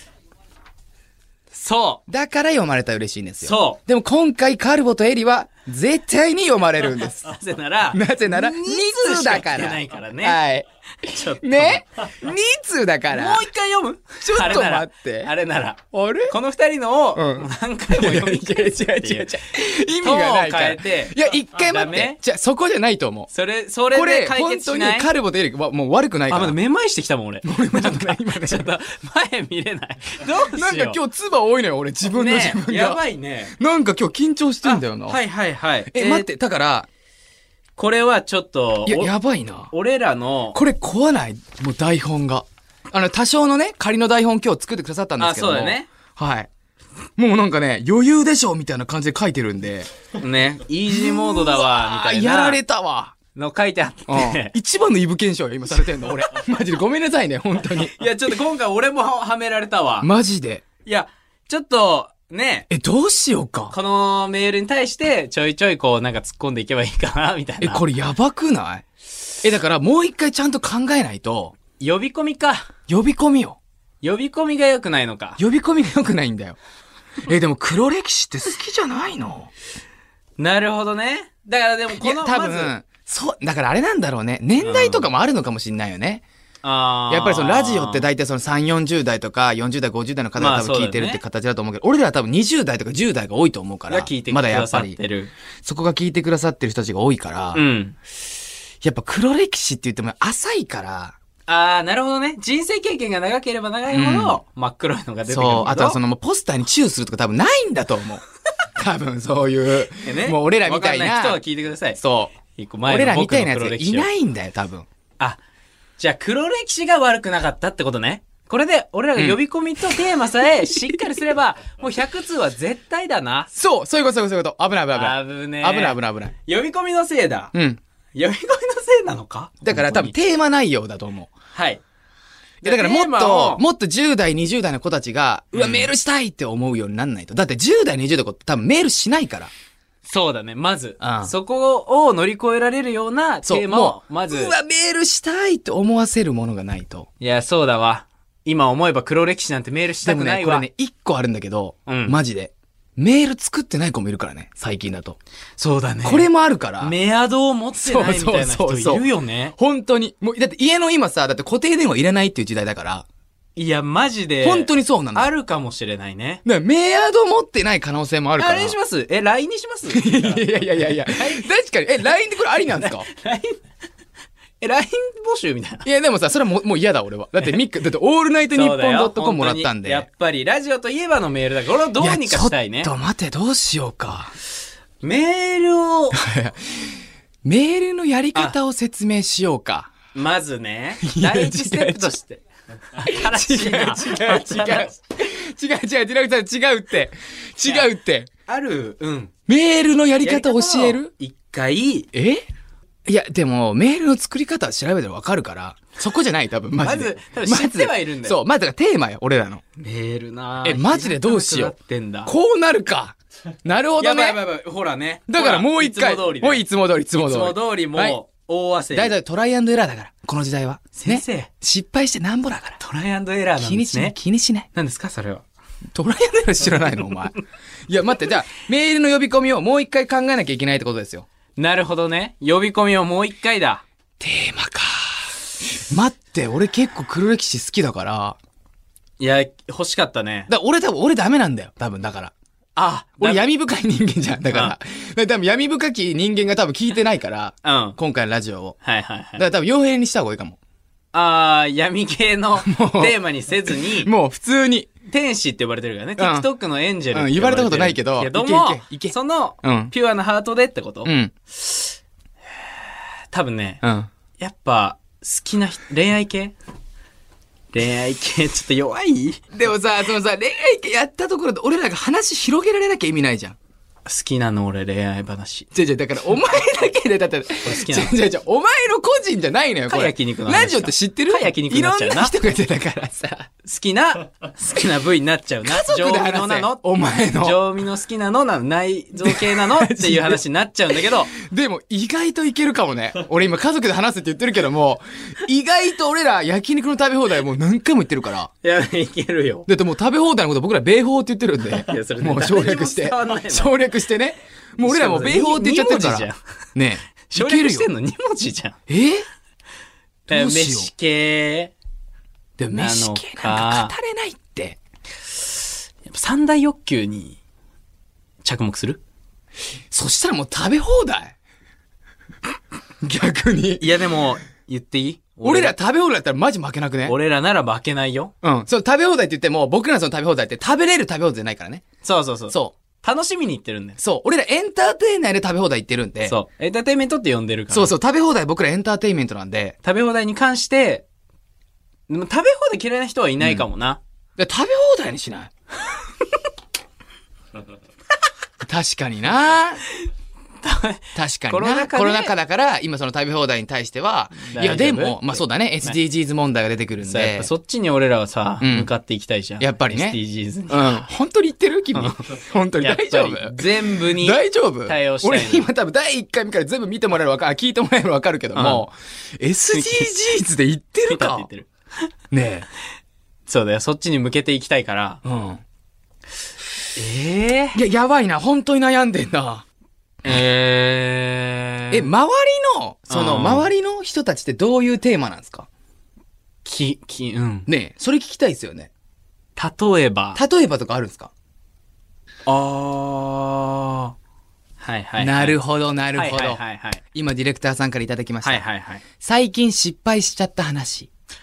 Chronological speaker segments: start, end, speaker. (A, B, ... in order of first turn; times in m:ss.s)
0:01.5-0:02.0 A
0:02.1-0:07.3 B
0:03.4-0:03.8 A
0:07.2-0:10.4 A
0:07.9-0:13.4 B
0:11.1-0:11.8 A
0:13.1-0:19.4 A
0:14.2-0:15.3 B
0:15.9-0:16.4 B
0:17.1-0:23.3 B
0:20.0-0:22.2 A
0:23.3-0:25.1 A
0:23.9-0:26.6 B
0:26.3-0:31.0 A
0:27.4-0:28.7 B
0:30.4-0:33.0 B
0:32.0-0:33.6 A
0:33.5-0:35.2 B
0:34.6-0:36.3 A
0:35.9-0:36.9 B
0:37.8-0:39.1 A
0:38.9-0:39.7 B
0:39.7-0:40.6 A
0:40.5-0:46.5 B
0:45.2-0:45.9 A
0:47.2-0:49.9 B
0:50.2-0:52.6 A
0:50.9-0:53.2 B
0:53.4-0:54.6 A
0:54.1-0:58.0 B
0:57.8-1:00.1 A
1:00.0-1:00.6 B
1:00.8-1:02.7 A
1:02.7-1:03.8 B
1:03.7-1:07.8 A
1:07.6-1:08.8 B
1:09.4-1:11.6 B
1:11.8-1:12.7 A
1:12.9-1:13.6 B
1:14.0-1:15.4 A
1:15.4-1:16.6 B
1:17.3-1:19.5 B
1:20.4-1:22.7 A
1:22.0-1:26.2 B
1:24.6-1:25.1 A
1:26.6-1:28.0 A
1:27.1-1:35.0 B
1:30.4-1:31.2 A
1:33.9-1:35.3 A
1:35.6-1:37.6 B
1:37.5-1:38.0 A
1:38.8-1:41.2 B
1:41.5-1:46.0 A
1:43.9-1:44.4 B
1:45.3-1:48.2 B
1:48.8-1:51.4 B
1:50.0-1:54.1 A
1:52.0-1:52.4 B
1:52.9-1:54.9 B
1:56.0-2:03.5 A
2:03.5-2:06.4 B
2:04.9-2:07.5 A
2:07.5-2:07.8 B
2:08.2-2:10.1 A
2:09.6-2:11.3 B
2:11.5-2:11.8 A
2:12.6-2:13.6 A
2:12.6-2:19.5 B
2:15.5-2:15.9 A
2:20.0-2:24.6 A
2:21.0-2:21.3 B
2:23.4-2:27.1 B
2:27.2-2:30.7 A
2:30.0-2:35.2 B
2:31.9-2:32.2 A
2:35.6-2:36.3 A
2:36.0-2:37.0 B
2:36.8-2:39.5 A
2:37.7-2:43.1 B
2:43.6-2:46.4 A
2:44.4-2:45.3 B
2:46.4-2:48.8 B
2:48.4-2:51.5 A
2:49.9-2:53.1 B
2:52.6-2:53.6 A
2:54.6-2:55.9 A
2:55.8-3:00.0 B
2:58.5-3:02.9 A
3:02.0-3:04.3 B
3:05.0-3:06.2 A
3:06.1-3:06.8 B
3:07.4-3:09.9 B
3:10.1-3:12.4 A
3:11.0-3:12.1 B
3:13.0-3:15.0 A
3:13.0-3:18.3 B
3:18.5-3:19.3 A
3:19.5-3:21.1 B
3:20.2-3:22.1 A
3:22.1-3:22.4 B
3:23.1-3:29.6 B
3:26.8-3:28.4 A
3:29.8-3:32.3 A
3:30.6-3:31.7 B
3:32.2-3:34.4 B
3:34.0-3:36.6 A
3:35.3-3:38.2 B
3:37.2-3:39.2 A
3:38.9-3:42.8 B
3:41.0-3:41.5 A
3:42.8-3:44.2 A
3:43.6-3:44.7 B
3:44.7-3:45.4 A
3:46.0-3:51.3 B
3:51.6-3:53.8 A
3:54.2-3:58.4 B
3:59.2-4:00.5 A
4:00.5-4:02.3 B
4:02.8-4:03.5 A
4:03.2-4:08.8 B
4:04.5-4:04.8 A
4:07.6-4:08.0 A
4:08.8-4:09.5 A
4:09.4-4:10.6 B
4:11.1-4:14.1 A
4:12.6-4:14.9 B
4:15.1-4:21.1 A
4:16.2-4:16.5 B
4:17.1-4:19.9 B
4:21.0-4:21.3 B
4:23.3-4:23.8 A
4:23.8-4:24.1 B
4:24.4-4:26.6 A
4:27.7-4:29.4 A
4:29.5-4:33.6 B
4:34.1-4:35.7 A
4:35.7-4:43.5 B
4:37.6-4:38.2 A
4:39.9-4:42.3 A
4:43.6-4:51.3 A
4:45.6-4:47.6 B
4:49.2-4:50.4 B
4:51.0-4:58.5 B
4:58.6-4:59.7 A
4:59.7-5:07.9 B
5:01.7-5:03.7 A
5:04.8-5:06.4 A
5:07.3-5:08.8 A
5:08.9-5:09.3 B
5:10.3-5:10.9 B
5:10.3-5:11.7 A
5:12.6-5:14.8 B
5:12.7-5:13.9 A
5:16.0-5:17.4 A
5:18.4-5:19.0 A
5:19.9-5:21.4 B
5:23.0-5:23.9 B
5:23.8-5:25.8 A
5:25.4-5:27.2 B
5:27.0-5:28.3 A
5:28.4-5:31.9 B
5:32.0-5:34.0 A
5:32.5-5:32.8 B
5:34.0-5:36.4 B
5:36.2-5:37.9 A
5:37.7-5:39.8 B
5:39.8-5:41.0 A
5:42.1-5:44.0 A
5:44.4-5:45.5 B
5:48.6-5:49.9 B
5:50.6-5:52.3 A
5:51.2-5:57.5 B
5:54.4-5:56.0 A
5:57.0-6:01.1 A
5:58.6-5:58.9 B
5:59.6-6:11.5 B
6:02.0-6:02.2 A
6:02.8-6:05.7 A
6:08.6-6:08.8 A
6:09.7-6:10.1 A
6:11.1-6:12.1 A
6:12.3-6:12.7 B
6:13.5-6:15.2 A
6:15.2-6:15.6 B
6:17.0-6:17.8 A
6:17.7-6:19.6 B
6:20.2-6:22.1 A
6:21.9-6:25.7 B
6:23.1-6:23.7 A
6:26.6-6:27.7 A
6:27.7-6:28.9 B
6:29.6-6:30.4 A
6:30.4-6:31.3 B
6:32.5-6:34.2 A
6:34.8-6:35.6 A
6:35.2-6:36.6 B
6:36.2-6:37.0 A
6:37.1-6:38.6 B
6:38.4-6:39.0 A
6:39.2-6:41.1 B